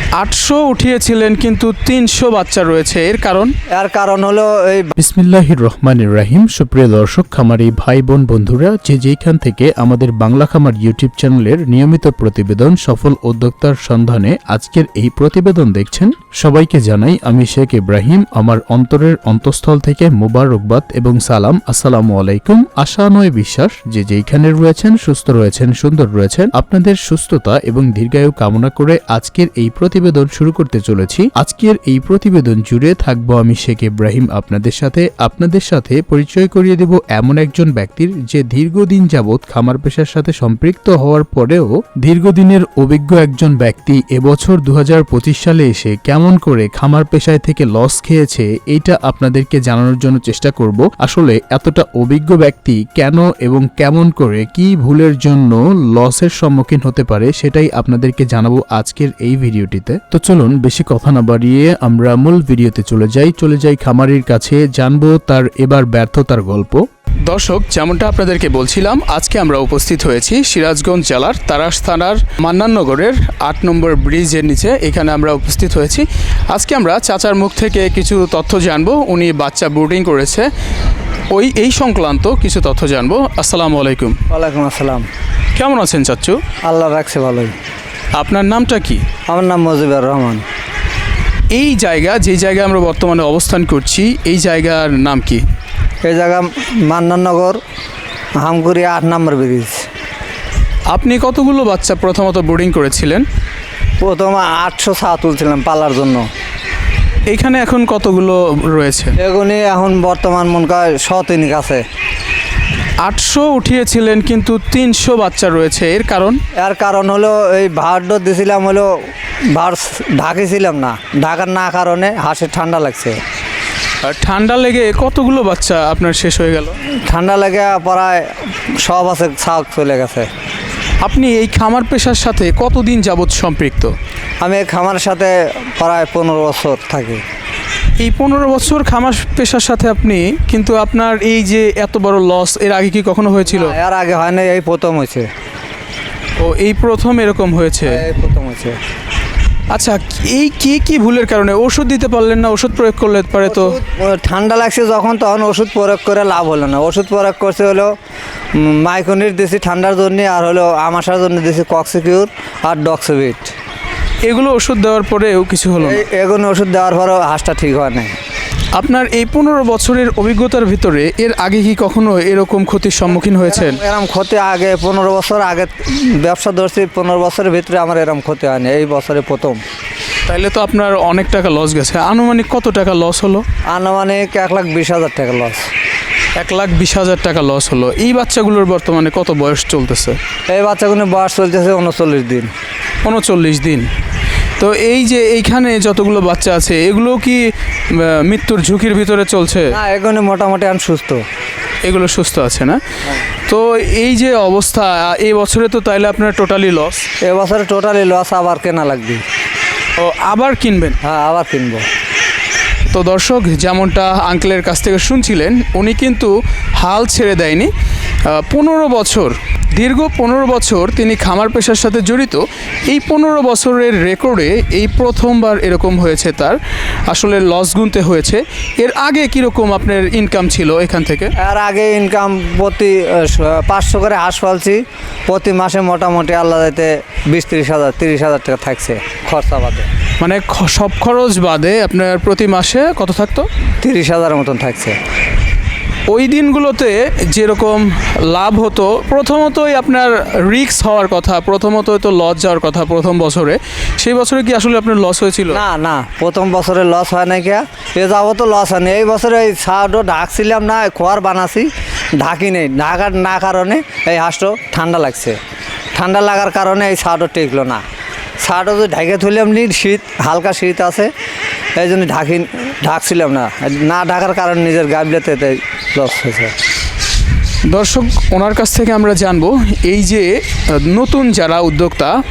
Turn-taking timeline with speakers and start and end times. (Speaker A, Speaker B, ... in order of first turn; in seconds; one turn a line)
Speaker A: 0.2-3.5
Speaker B: 3.7-4.9
Speaker C: 5.0-66.8
Speaker A: 67.3-80.5
Speaker A: 81.3-84.2
Speaker B: 84.3-85.1
Speaker A: 85.5-86.4
Speaker B: 86.7-87.5
Speaker A: 88.1-89.0
Speaker B: 89.3-90.4
Speaker A: 91.5-95.4
Speaker B: 96.0-97.6
Speaker B: 98.4-99.9
Speaker A: 100.9-103.3
Speaker B: 104.0-106.3
Speaker A: 107.3-109.2
Speaker B: 109.2-111.8
Speaker A: 113.0-116.4
Speaker B: 116.6-119.0
Speaker B: 119.5-123.2
Speaker A: 124.0-126.8
Speaker B: 127.1-130.3
Speaker A: 131.0-133.9
Speaker B: 134.4-137.2
Speaker A: 138.0-143.8
Speaker B: 143.5-145.3
Speaker A: 146.4-148.0
Speaker B: 147.8-148.8
Speaker A: 149.7-153.8
Speaker B: 153.5-157.9
Speaker B: 158.6-163.5
Speaker A: 164.2-166.0
Speaker B: 165.8-168.1
Speaker A: 168.8-173.8
Speaker B: 173.1-179.6
Speaker A: 180.3-183.4
Speaker B: 183.7-185.7
Speaker A: 186.4-190.2
Speaker B: 190.5-192.5
Speaker A: 193.0-193.9
Speaker A: 194.6-199.7
Speaker B: 199.7-201.2
Speaker A: 201.8-202.8
Speaker A: 203.5-207.1
Speaker B: 207.2-209.2
Speaker A: 210.0-211.0
Speaker B: 211.0-211.9
Speaker A: 212.9-217.7
Speaker A: 218.2-231.3
Speaker B: 231.4-239.9
Speaker A: 240.2-243.5
Speaker B: 243.8-245.0
Speaker A: 246.1-255.6
Speaker B: 255.5-265.4
Speaker B: 265.9-267.8
Speaker B: 268.4-271.1
Speaker B: 271.8-276.6
Speaker A: 277.6-282.2